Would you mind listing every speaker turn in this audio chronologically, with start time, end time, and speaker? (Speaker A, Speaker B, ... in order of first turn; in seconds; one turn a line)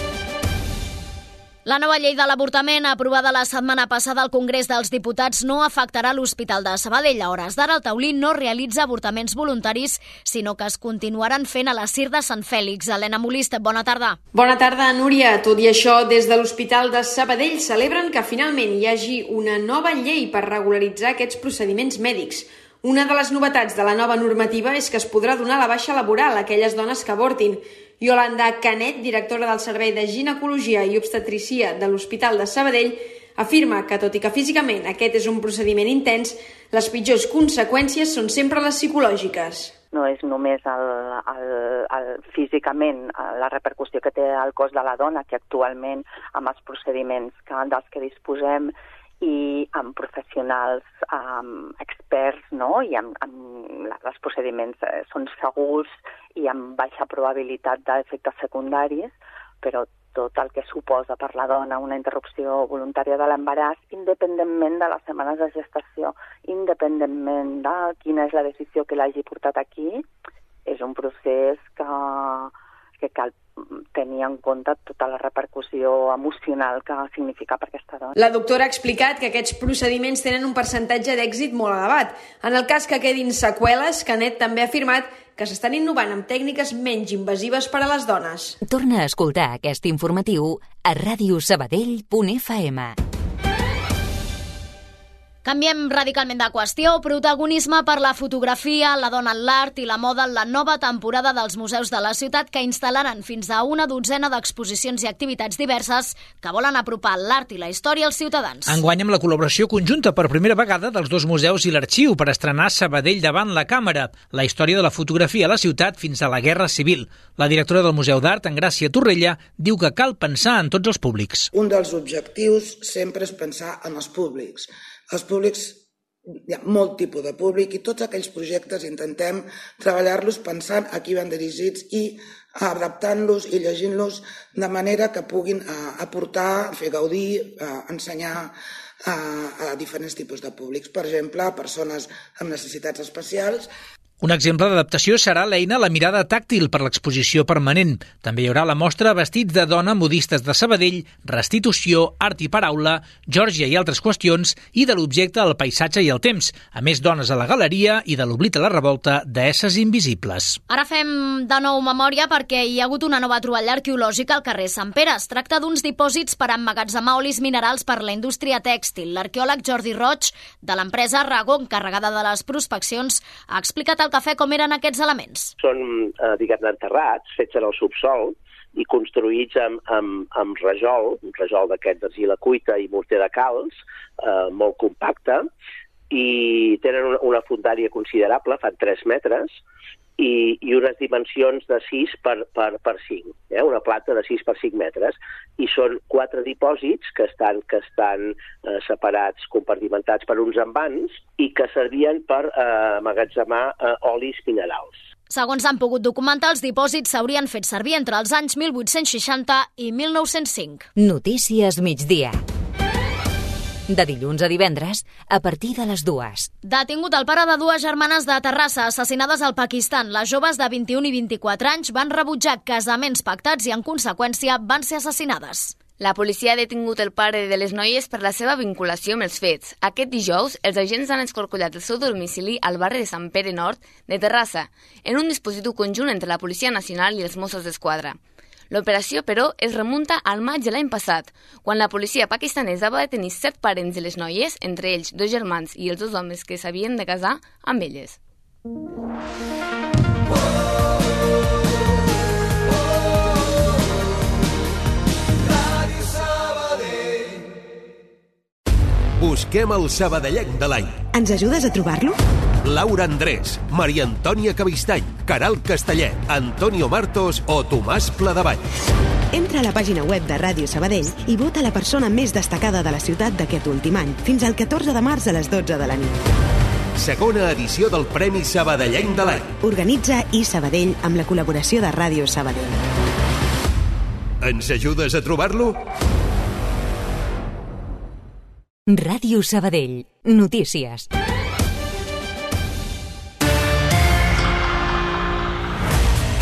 Speaker A: 1.6-14.2
Speaker B: 14.3-39.7
Speaker C: 39.9-70.0
Speaker C: 70.7-78.1
Speaker B: 78.2-88.5
Speaker D: 88.6-93.0
Speaker A: 95.5-108.8
Speaker E: 108.7-121.5
Speaker F: 121.5-125.8
Speaker F: 126.5-138.5
Speaker F: 139.1-143.7
Speaker E: 144.2-160.6
Speaker A: 160.7-175.5
Speaker G: 175.6-185.5
Speaker G: 186.1-189.6
Speaker G: 190.2-205.0
Speaker A: 205.3-210.9
Speaker D: 211.0-212.4
Speaker D: 213.9-216.5
Speaker A: 216.7-225.8
Speaker H: 226.0-238.2
Speaker H: 238.7-248.2
Speaker I: 259.2-260.9
Speaker J: 261.2-262.2
Speaker I: 262.6-268.6
Speaker J: 269.3-276.1
Speaker I: 277.0-279.5
Speaker J: 279.7-282.8
Speaker I: 284.4-285.8
Speaker D: 288.9-291.1